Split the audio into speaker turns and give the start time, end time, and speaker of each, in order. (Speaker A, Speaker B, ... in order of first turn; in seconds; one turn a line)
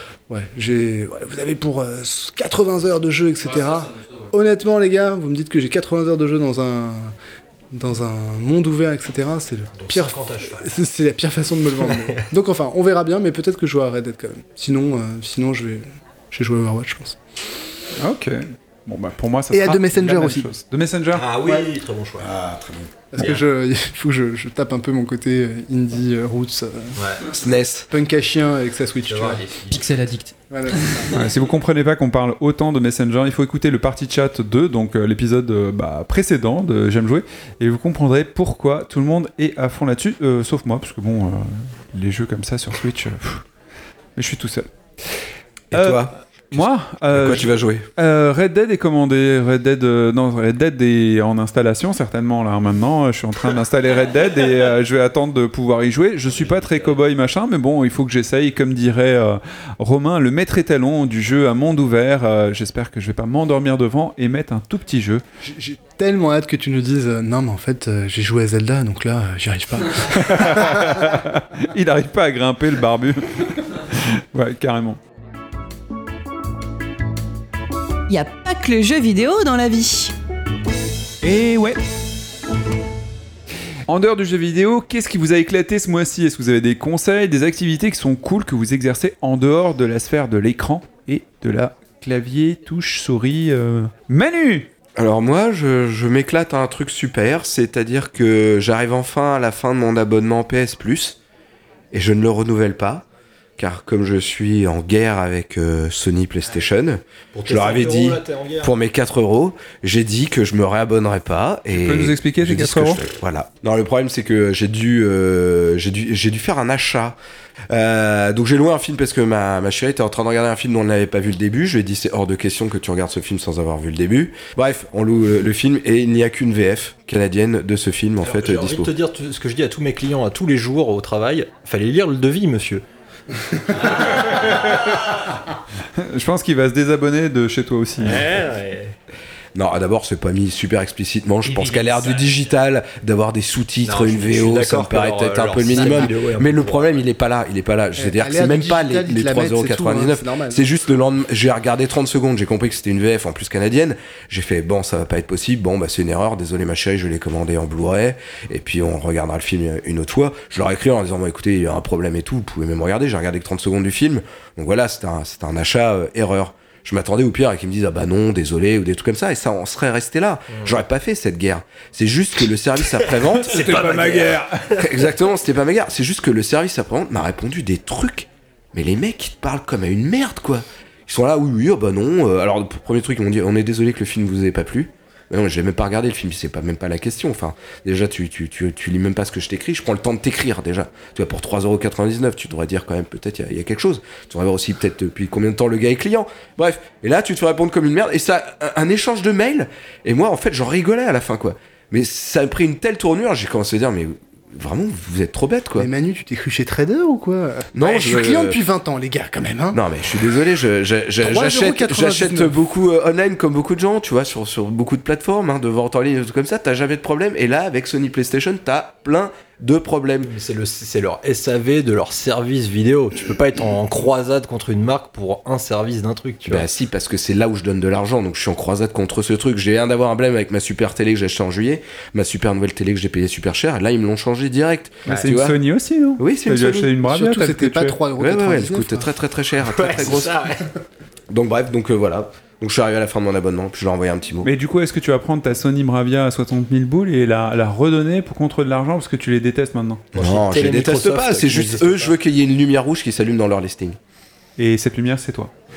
Speaker A: 0.3-7.1
Speaker A: 7.7-17.2
Speaker B: 9.8-10.8
Speaker B: 11.8-12.2
Speaker C: 18.0-21.3
Speaker A: 19.5-20.5
Speaker B: 21.1-22.3
Speaker A: 21.4-21.7
Speaker D: 22.2-22.9
Speaker A: 23.1-27.0
Speaker B: 27.0-27.2
Speaker D: 27.3-27.9
Speaker A: 27.9-29.4
Speaker B: 29.1-29.8
Speaker E: 29.7-31.2
Speaker A: 30.5-31.1
Speaker C: 31.1-43.5
Speaker C: 44.2-44.7
Speaker D: 45.7-47.9
Speaker C: 45.7-65.2
Speaker B: 56.3-56.9
Speaker A: 65.5-71.1
Speaker C: 70.2-75.0
Speaker F: 78.1-80.1
Speaker C: 81.2-81.8
Speaker C: 83.9-94.7
Speaker D: 95.0-101.2
Speaker D: 101.9-103.0
Speaker D: 103.6-117.2
Speaker B: 107.3-108.8
Speaker C: 111.7-113.0
Speaker D: 117.7-128.9
Speaker B: 128.2-132.8
Speaker C: 136.0-138.3
Speaker B: 138.0-138.9
Speaker D: 139.6-205.9
Speaker E: 141.4-142.2
Speaker B: 143.8-147.0
Speaker E: 145.7-146.1
Speaker A: 148.0-150.6
Speaker B: 170.5-170.8
Speaker B: 173.4-174.9
Speaker C: 173.4-174.8
Speaker A: 205.8-209.8
Speaker D: 207.7-208.6
Speaker D: 209.7-220.3
Speaker A: 211.2-212.5
Speaker B: 220.2-226.7
Speaker D: 226.5-235.6
Speaker B: 235.1-235.3
Speaker C: 235.1-238.0
Speaker D: 236.2-236.9
Speaker A: 237.0-239.1
Speaker D: 238.2-240.4
Speaker B: 239.7-240.7
Speaker D: 241.3-244.5
Speaker C: 244.4-250.0
Speaker D: 250.1-254.0
Speaker B: 250.2-252.2
Speaker C: 254.6-255.5